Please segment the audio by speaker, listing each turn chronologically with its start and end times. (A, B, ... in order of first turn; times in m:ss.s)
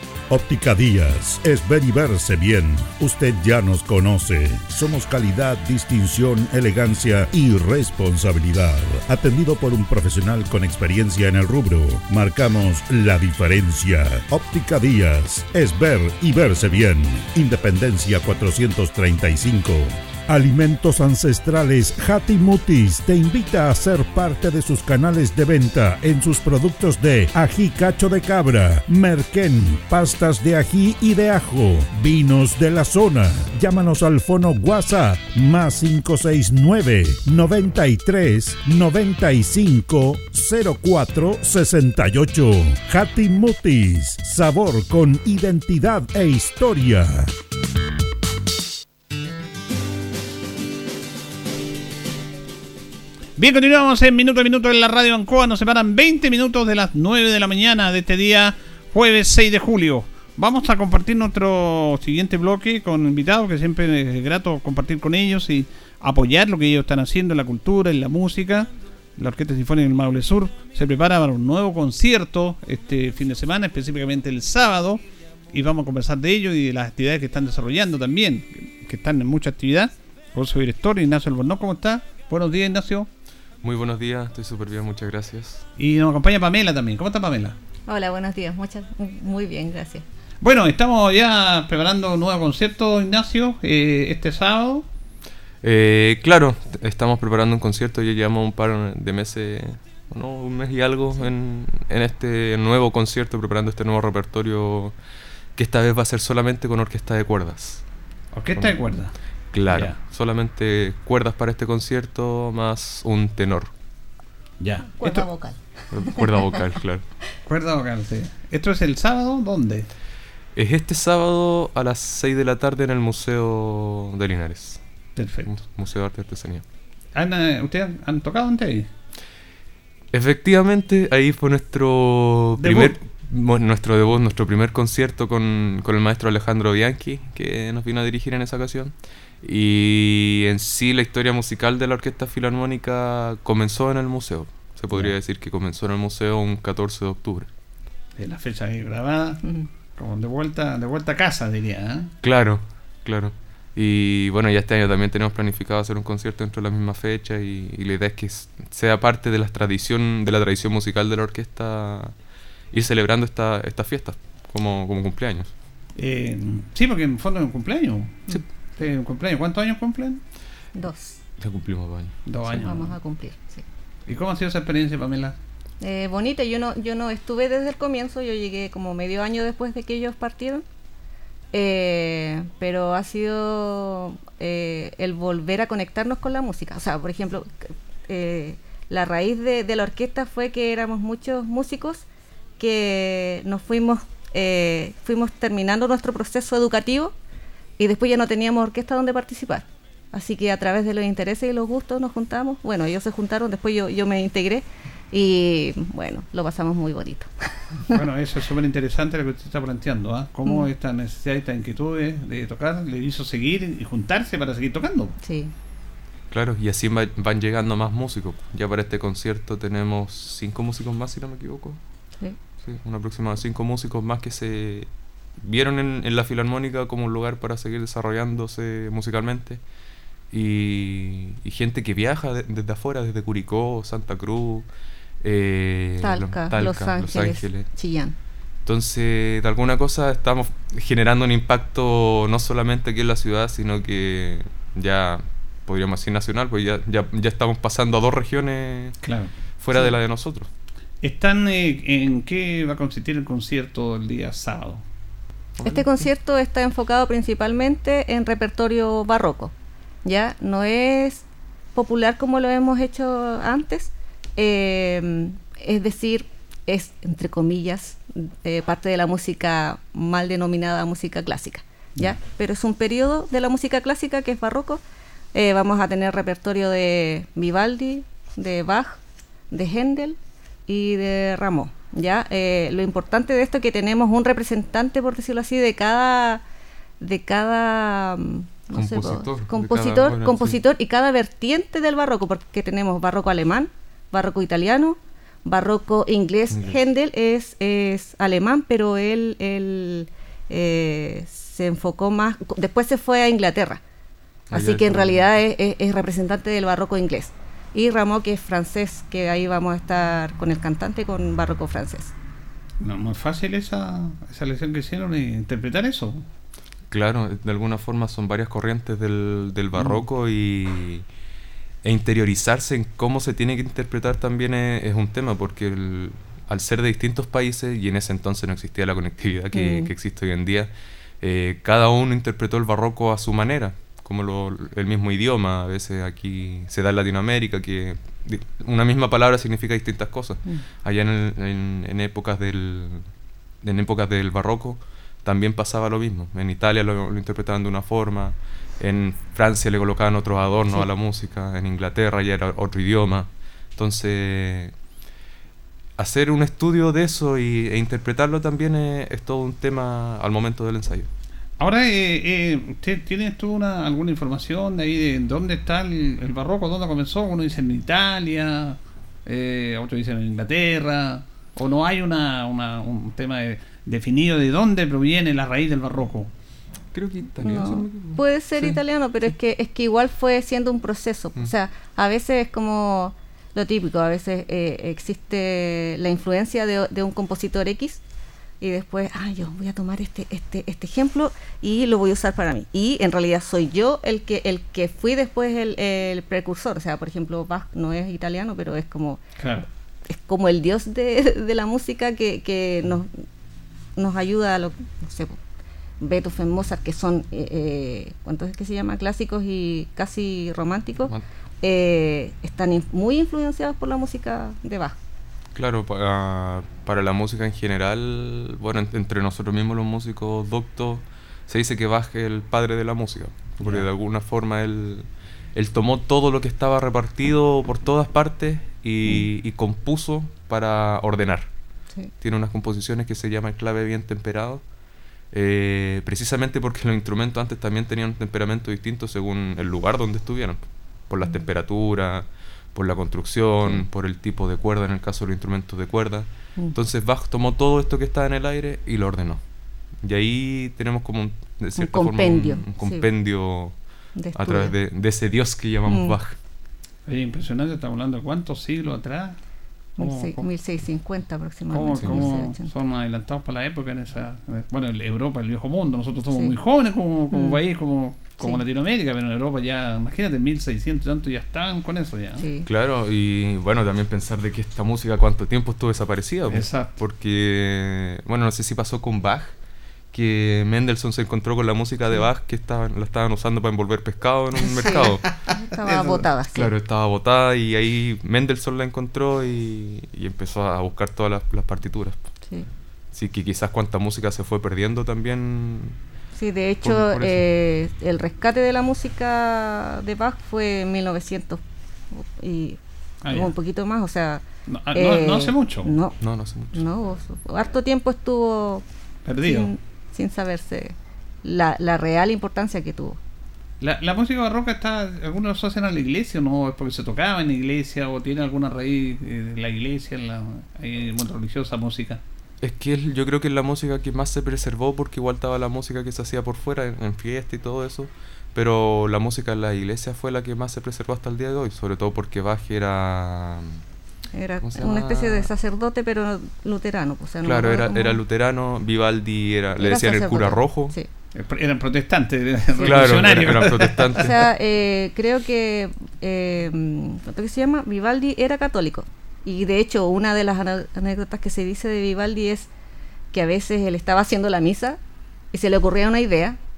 0:00.3-0:47.3 A
0:53.4-1:23.1 B
1:23.6-1:25.7 C
1:25.8-1:27.6 B
1:27.9-1:30.0 D
1:30.4-1:34.9 B
1:35.6-1:44.9 C
1:45.6-1:47.8 C
1:48.3-1:49.2 B
1:49.5-1:53.7 C
1:49.7-1:50.0 B
1:54.6-1:55.3 B
1:55.0-1:56.2 D
1:55.9-1:57.1 C
1:57.5-1:59.9 B
2:00.6-2:04.8 C
2:05.2-2:05.5 B
2:05.4-2:06.6 C
2:07.2-2:08.9 B
2:10.1-2:27.5 C
2:12.6-2:13.0 B
2:28.2-2:32.1 B
2:32.2-2:42.1 C
2:42.7-2:45.5 C
2:46.0-2:50.2 B
2:50.8-2:51.2 D
2:51.4-2:52.8 C
2:52.3-2:52.9 B
2:52.6-2:53.6 D
2:54.1-2:55.4 B
2:55.8-3:00.6 D
3:01.5-3:07.5 D
3:08.1-3:12.0 D
3:12.6-3:17.2 D
3:17.8-3:27.3 D
3:27.9-3:35.2 B
3:35.2-3:35.5 D
3:36.3-3:41.8 C
3:42.6-3:49.6 C
3:50.3-3:54.7 C
3:55.2-3:57.7 C
3:56.0-3:58.2 D
3:58.6-4:09.0 C
4:09.0-4:09.3 B
4:09.6-4:10.5 C
4:11.0-4:14.8 B
4:15.6-4:16.1 C
4:15.6-4:21.2 D
4:21.8-4:34.8 D
4:35.3-4:39.0 D
4:39.5-4:46.4 D
4:47.0-5:03.8 D
4:48.7-4:50.6 C
4:56.5-4:56.8 C
5:04.5-5:05.3 C
5:04.5-5:12.1 D
5:12.8-5:16.2 B
5:16.9-5:21.1 C
5:19.7-5:20.0 B
5:21.8-5:43.1 C
5:29.5-5:29.9 D
5:43.6-5:54.7 C
5:56.0-6:01.1 C
6:01.6-6:16.3 B
6:16.9-6:18.8 C
6:17.4-6:28.0 D
6:28.6-6:39.2 D
6:39.4-6:39.7 B
6:40.1-6:43.1 D
6:44.0-6:45.4 D
6:46.0-6:55.0 D
6:55.6-7:11.5 C
7:12.2-7:14.6 C
7:15.3-7:29.4 C
7:30.0-7:36.4 C
7:31.8-7:33.1 D
7:34.2-7:34.8 D
7:35.8-7:36.2 D
7:37.1-7:39.4 B
7:40.0-7:42.7 D
7:40.0-7:40.5 B
7:41.7-7:52.4 B
7:42.0-7:42.3 C
7:47.3-7:47.6 D
7:52.4-7:52.7 D
7:52.6-7:59.5 C
7:56.5-7:57.0 B
8:00.1-8:05.5 C
8:04.6-8:06.7 D
8:05.8-8:06.2 B
8:06.5-8:12.3 C
8:13.1-8:16.0 C
8:16.4-8:26.2 D
8:16.8-8:17.4 C
8:23.2-8:23.6 B
8:24.7-8:25.9 B
8:26.2-8:26.8 C
8:26.7-8:28.8 D
8:29.3-8:29.7 B
8:29.4-8:33.2 D
8:33.8-8:42.2 B
8:42.6-8:53.8 C
8:54.3-8:58.2 D
8:54.6-8:55.5 C
8:57.4-9:01.0 C
8:59.8-9:01.1 D
9:01.4-9:04.3 B
9:02.8-9:03.1 D
9:02.8-9:04.4 C
9:04.2-9:12.7 D
9:13.3-9:15.0 D
9:15.5-9:16.6 D